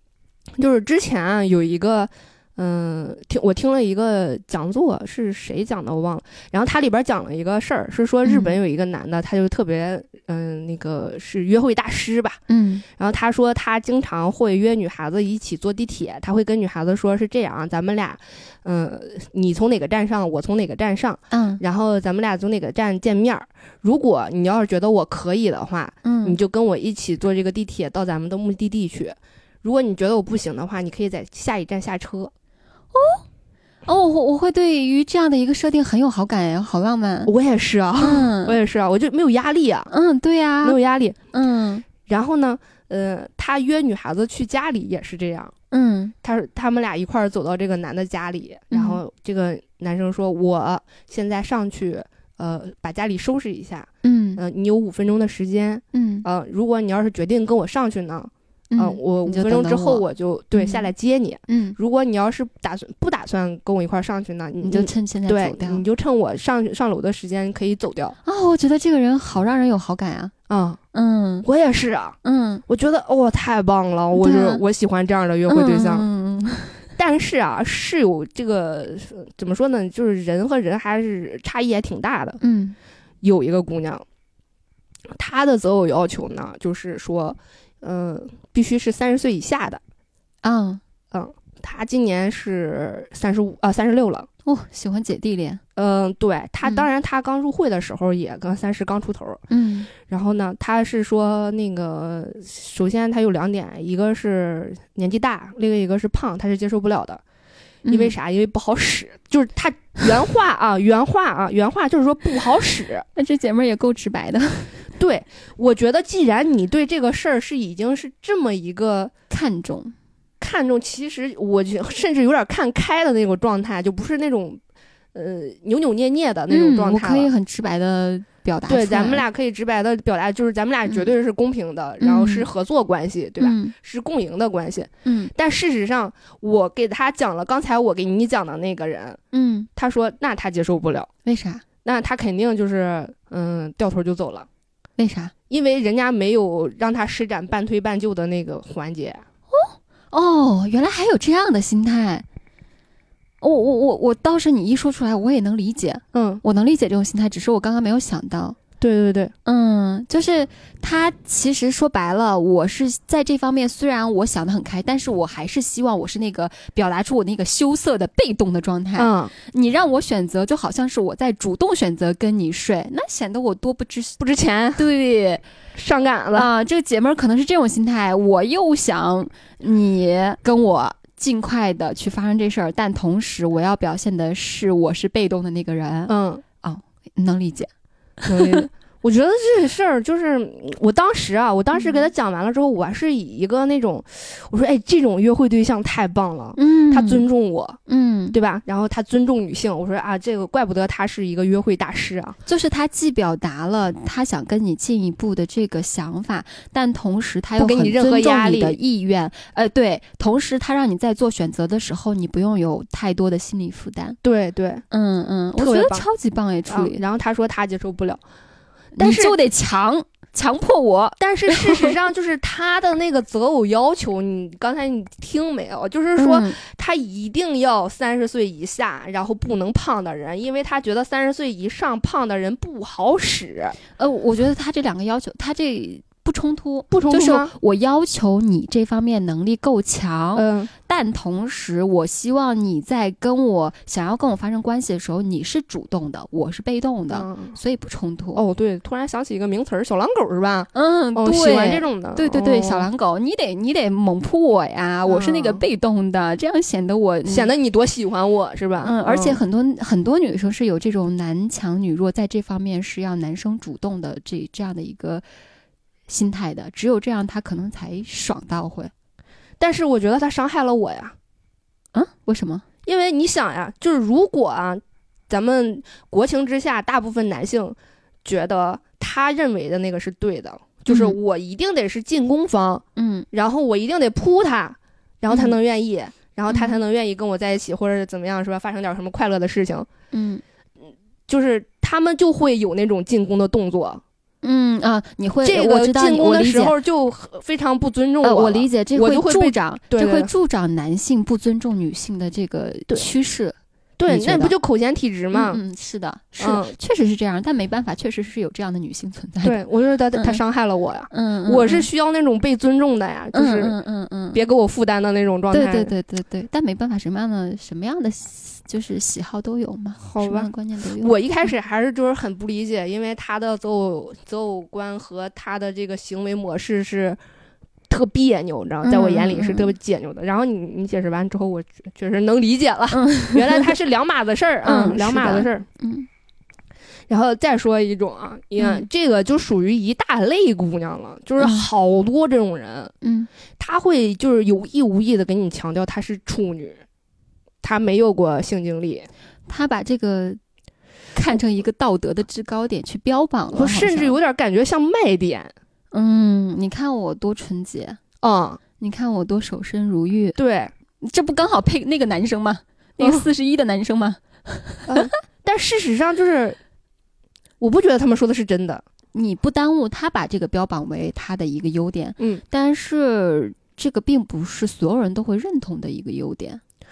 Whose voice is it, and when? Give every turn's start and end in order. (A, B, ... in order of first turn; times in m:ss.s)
0:00.6-0:12.4 A
0:08.2-0:08.6 B
0:12.5-0:12.8 B
0:13.0-0:32.3 A
0:21.3-0:21.6 B
0:26.0-0:26.4 B
0:32.9-0:33.2 B
0:33.9-0:37.3 B
0:37.3-0:39.9 A
0:38.0-0:38.6 B
0:39.9-0:40.8 B
0:40.6-0:41.2 A
0:41.3-0:41.9 B
0:42.0-0:45.5 A
0:45.7-0:46.1 B
0:46.2-1:08.2 A
0:48.7-0:49.0 B
0:54.0-0:54.4 B
0:55.9-0:56.3 B
0:58.7-1:00.9 B
1:01.5-1:01.8 B
1:04.6-1:05.8 B
1:08.2-1:10.3 B
1:10.5-1:10.8 A
1:10.9-1:11.5 B
1:11.4-1:16.1 A
1:12.2-1:12.6 B
1:14.2-1:14.6 B
1:15.5-1:16.8 B
1:17.0-1:22.4 A
1:22.4-1:22.8 B
1:23.2-1:24.0 A
1:25.2-1:29.8 A
1:30.4-1:30.8 B
1:31.1-1:34.3 A
1:34.4-1:35.6 B
1:35.8-1:39.4 A
1:39.5-1:39.9 B
1:40.0-1:47.2 A
1:47.8-1:48.1 B
1:47.9-1:53.0 A
1:53.2-1:54.8 B
1:55.0-1:59.1 A
1:59.3-2:00.0 B
2:00.4-2:04.6 A
2:05.1-2:07.3 A
2:06.5-2:09.2 B
2:08.7-2:19.2 A
2:12.0-2:12.5 B
2:13.4-2:13.7 B
2:15.0-2:15.3 B
2:19.3-2:19.7 B
2:19.8-2:21.1 A
2:21.2-2:21.6 B
2:21.8-2:24.5 A
2:25.0-2:25.3 B
2:25.5-2:29.2 A
2:29.5-2:32.2 B
2:33.4-2:38.6 B
2:36.1-2:36.4 A
2:38.8-2:39.3 A
2:39.5-2:54.2 B
2:49.0-2:49.3 A
2:54.2-2:54.8 A
2:54.8-2:55.4 B
2:55.8-2:56.5 A
2:56.3-3:07.7 B
3:06.1-3:06.4 A
3:08.2-3:08.6 B
3:08.3-3:17.8 A
3:11.7-3:12.1 B
3:16.6-3:17.3 B
3:17.9-3:18.4 B
3:18.3-3:22.4 A
3:22.5-3:34.2 B
3:27.6-3:28.8 A
3:34.2-3:34.8 A
3:34.9-3:37.0 B
3:35.6-3:36.1 A
3:36.7-3:38.2 A
3:39.0-3:42.0 B
3:39.0-3:39.4 A
3:41.2-3:53.8 A
3:46.2-3:46.6 B
3:54.0-4:08.4 B
3:56.9-3:57.5 A
4:00.4-4:00.7 A
4:07.1-4:07.6 A
4:08.4-4:12.9 A
4:10.7-4:17.5 B
4:15.1-4:15.6 A
4:17.3-4:19.4 A
4:18.8-4:25.2 B
4:26.1-4:28.9 B
4:29.6-4:31.2 A
4:31.9-4:32.6 B
4:32.9-4:49.9 A
4:40.9-4:41.2 B
4:43.0-4:43.3 B
4:45.3-4:45.6 B
4:46.5-4:46.8 B
4:50.1-4:50.4 B
4:51.3-4:54.0 A
4:54.4-4:56.8 B
4:55.4-5:00.3 A
4:58.2-5:03.6 B
5:04.0-5:05.6 A
5:04.1-5:04.5 B
5:05.3-5:09.6 B
5:06.4-5:06.8 A
5:09.4-5:13.8 A
5:10.2-5:10.4 B
5:11.1-5:11.9 B
5:13.3-5:14.4 B
5:14.3-5:15.9 A
5:15.5-5:21.1 B
5:20.0-5:27.2 A
5:27.9-5:35.7 A
5:28.8-5:29.7 B
5:32.9-5:33.7 B
5:34.6-5:36.1 B
5:37.1-5:42.9 A
5:38.6-5:38.9 B
5:41.4-5:41.7 B
5:43.0-5:43.3 B
5:43.6-5:46.8 A
5:47.6-5:49.1 A
5:49.5-5:50.4 B
5:51.2-5:54.2 B
5:53.5-5:55.5 A
5:55.9-5:58.0 B
5:58.2-5:58.6 A
5:58.8-6:00.4 B
6:00.4-6:00.7 A
6:01.0-6:05.1 B
6:03.0-6:03.2 A
6:04.9-6:06.6 A
6:07.6-6:08.8 A
6:09.1-6:16.6 B